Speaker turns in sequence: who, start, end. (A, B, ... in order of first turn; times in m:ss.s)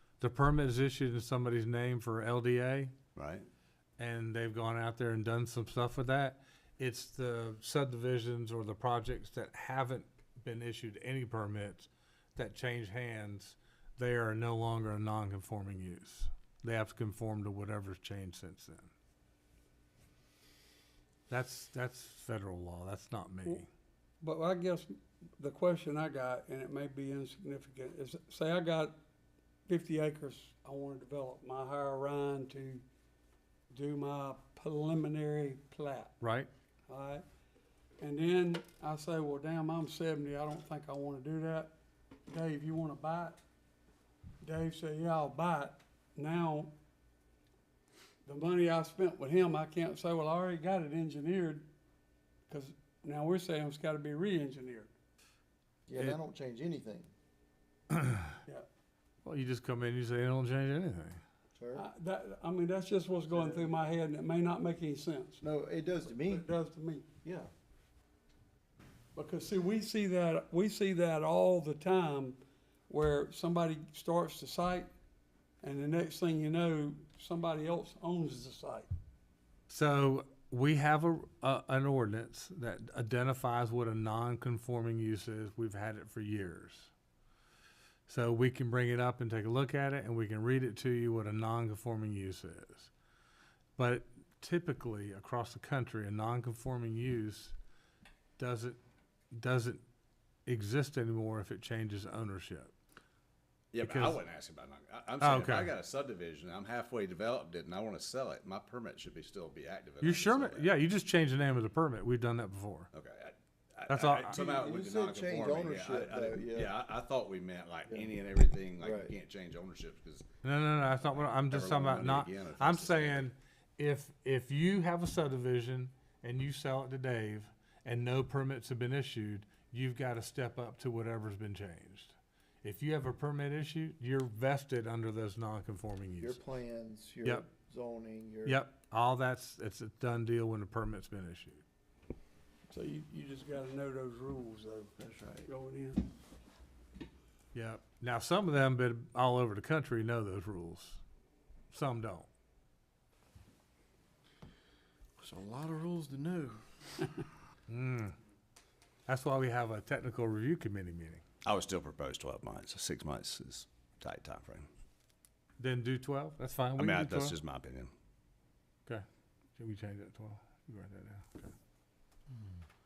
0:00.2-0:02.9 A
0:03.2-0:03.5 B
0:04.0-0:18.9 A
0:21.3-0:23.7 A
0:24.2-0:29.0 C
0:29.7-0:32.8 C
0:33.7-0:36.1 C
0:36.2-0:36.5 A
0:36.9-0:37.2 C
0:38.0-0:41.7 C
0:42.3-0:43.4 C
0:44.4-0:46.7 C
0:48.2-0:51.7 C
0:52.5-0:54.9 C
0:55.9-0:57.1 D
0:57.9-0:58.3 A
0:59.2-1:01.2 A
1:01.6-1:01.8 D
1:01.7-1:05.4 C
1:03.3-1:03.7 D
1:05.4-1:06.4 D
1:06.0-1:07.0 C
1:07.2-1:07.5 D
1:09.2-1:14.9 C
1:15.6-1:18.9 C
1:19.7-1:26.9 A
1:28.1-1:32.9 A
1:33.8-1:37.5 A
1:38.4-1:38.8 A
1:39.3-1:39.8 A
1:40.4-1:42.7 A
1:43.7-1:50.7 B
1:43.8-1:44.2 A
1:45.2-1:45.7 A
1:50.0-1:52.9 A
1:52.9-2:00.3 B
1:53.9-1:54.4 A
1:54.3-1:56.7 D
1:58.8-1:59.1 D
2:00.4-2:16.4 A
2:00.8-2:03.3 B
2:16.2-2:18.6 D
2:18.4-2:21.6 A
2:22.7-2:26.1 C
2:25.0-2:25.5 D
2:27.5-2:31.0 A
2:31.7-2:32.3 A
2:35.2-2:36.6 D
2:37.7-2:38.1 A
2:39.1-2:41.2 A
2:41.4-2:44.7 B
2:45.6-2:47.4 A
2:46.8-2:47.9 B
2:49.6-2:51.5 A